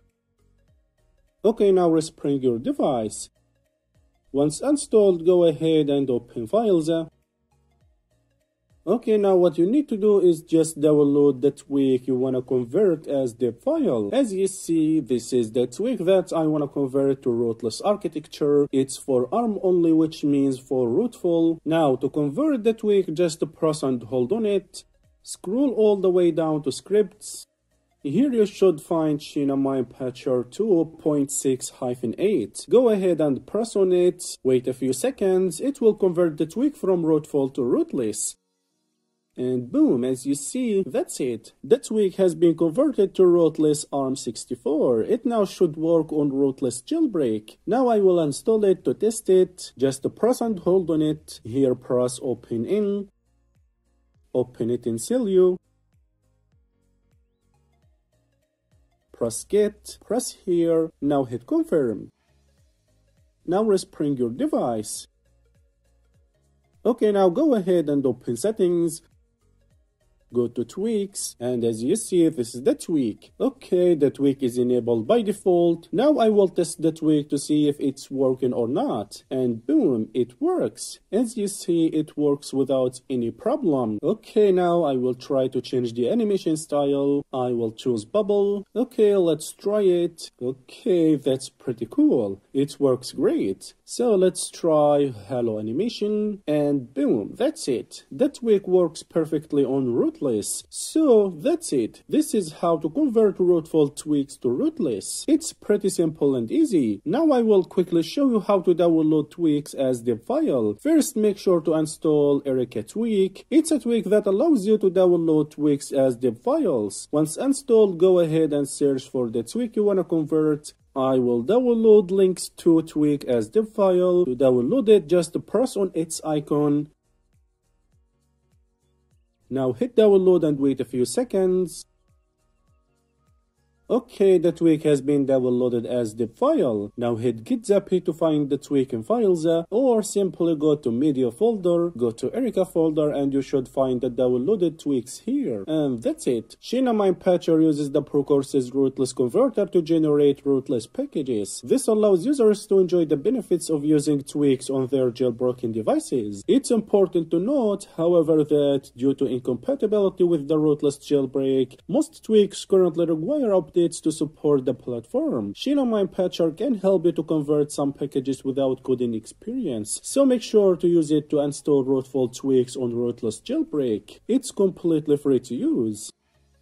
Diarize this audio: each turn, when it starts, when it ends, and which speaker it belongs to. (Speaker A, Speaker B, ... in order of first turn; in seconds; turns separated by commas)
Speaker A: 1.4-3.3, Speaker A: 4.3-7.1, Speaker A: 8.8-27.5, Speaker A: 28.0-38.4, Speaker A: 39.4-53.1, Speaker A: 54.3-55.6, Speaker A: 59.1-62.1, Speaker A: 63.4-65.1, Speaker A: 66.8-69.0, Speaker A: 70.3-126.9, Speaker A: 129.5-131.8, Speaker A: 133.9-176.1